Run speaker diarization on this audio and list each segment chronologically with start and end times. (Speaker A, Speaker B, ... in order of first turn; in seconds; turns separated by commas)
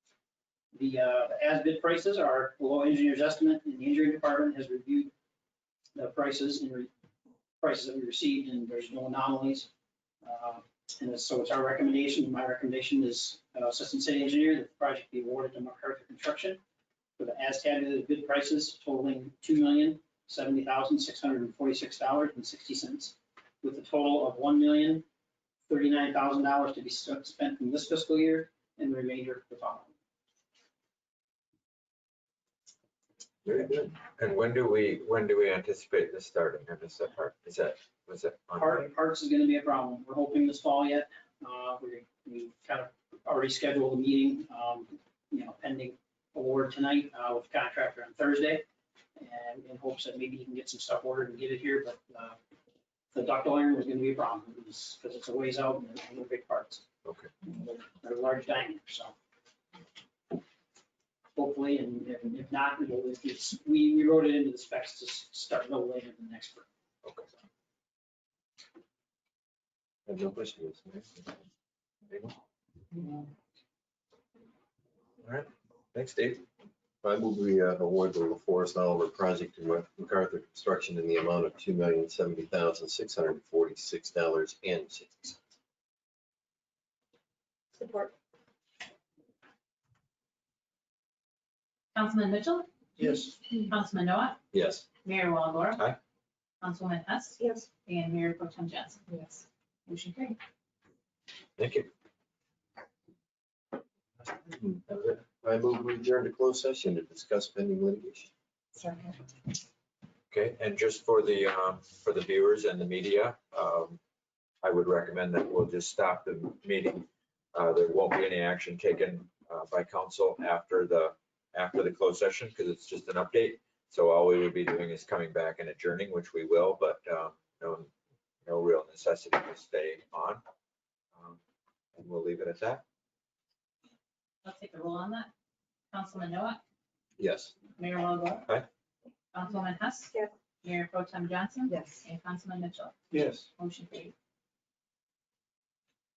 Speaker A: 0.7-5.1, Speaker A: 6.0-6.9, Speaker A: 7.6-9.7, Speaker A: 10.2-16.6, Speaker A: 17.2-25.0, Speaker A: 25.7-29.9, Speaker B: 33.5-34.0, Speaker C: 34.0-38.9, Speaker A: 38.5-48.6, Speaker A: 49.1-52.4, Speaker A: 53.1-56.8, Speaker A: 57.4-59.1, Speaker A: 61.4-66.7, Speaker B: 70.0-71.2, Speaker C: 75.2-76.4, Speaker B: 77.0-85.4, Speaker D: 87.7-88.1, Speaker E: 91.9-94.4, Speaker A: 93.0-93.3, Speaker C: 94.5-94.9, Speaker E: 95.0-95.9, Speaker E: 96.6-99.0, Speaker D: 97.4-97.7, Speaker D: 99.1-99.4, Speaker E: 99.9-100.4, Speaker C: 101.6-101.9, Speaker B: 104.5-108.3, Speaker D: 108.7-109.2, Speaker C: 110.3-114.0, Speaker C: 114.6-127.9, Speaker C: 128.4-130.4, Speaker C: 131.9-132.8, Speaker E: 134.4-135.3, Speaker E: 135.9-136.6, Speaker C: 137.2-137.5, Speaker E: 137.8-138.5, Speaker E: 139.3-142.9, Speaker D: 141.7-142.0, Speaker E: 143.6-144.1